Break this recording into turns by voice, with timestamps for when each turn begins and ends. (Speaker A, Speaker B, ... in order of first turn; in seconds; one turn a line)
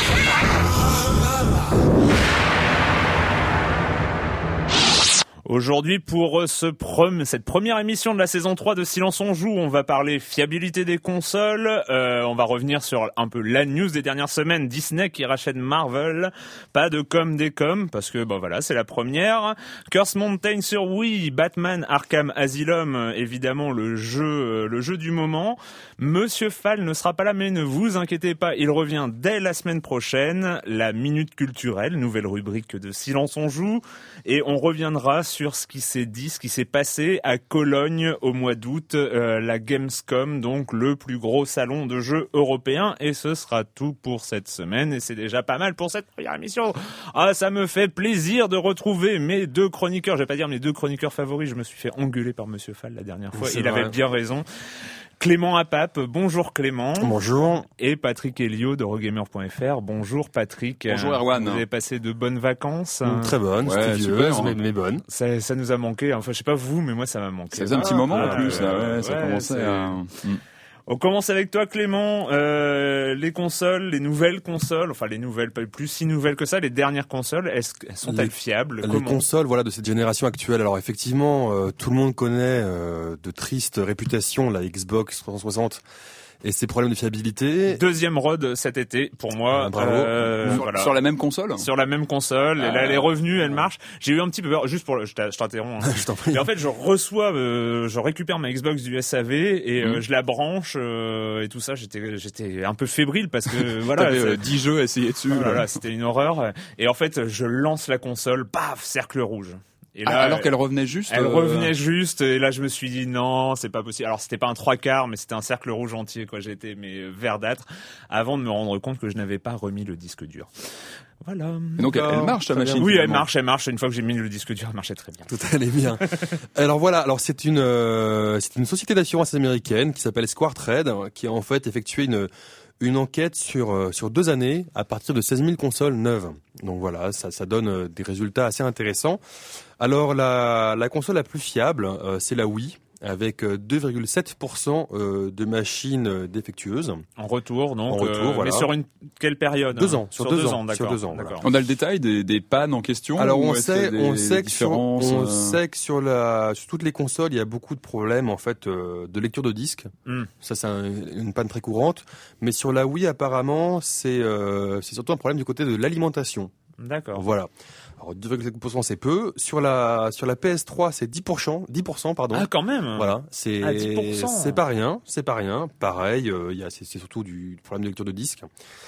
Speaker A: 5.5-54.4
Speaker B: 53.3-54.0
Speaker A: 55.2-63.3
Speaker B: 57.0-57.6
Speaker C: 60.9-61.6
Speaker B: 63.0-65.0
Speaker C: 63.6-64.6
Speaker A: 65.1-70.0
Speaker C: 67.5-70.4
Speaker B: 67.8-68.7
Speaker A: 70.9-79.2
Speaker B: 78.0-85.8
Speaker B: 86.4-87.8
Speaker A: 87.7-90.9
Speaker B: 89.5-90.6
Speaker C: 90.5-91.7
Speaker A: 91.5-104.5
Speaker B: 95.8-96.4
Speaker C: 103.9-105.7
Speaker A: 105.3-110.5
Speaker C: 110.0-111.7
Speaker A: 111.1-120.5
Speaker A: 121.2-121.9
Speaker C: 121.8-123.3
Speaker B: 121.8-122.9
Speaker A: 122.8-125.3
Speaker B: 125.3-139.2
Speaker B: 139.8-147.0
Speaker A: 147.2-151.4
Speaker B: 147.9-148.7
Speaker B: 149.7-151.4
Speaker C: 151.4-155.6
Speaker B: 153.2-159.9
Speaker B: 160.4-166.5
Speaker A: 166.8-167.2
Speaker B: 167.1-178.5
Speaker A: 172.3-174.6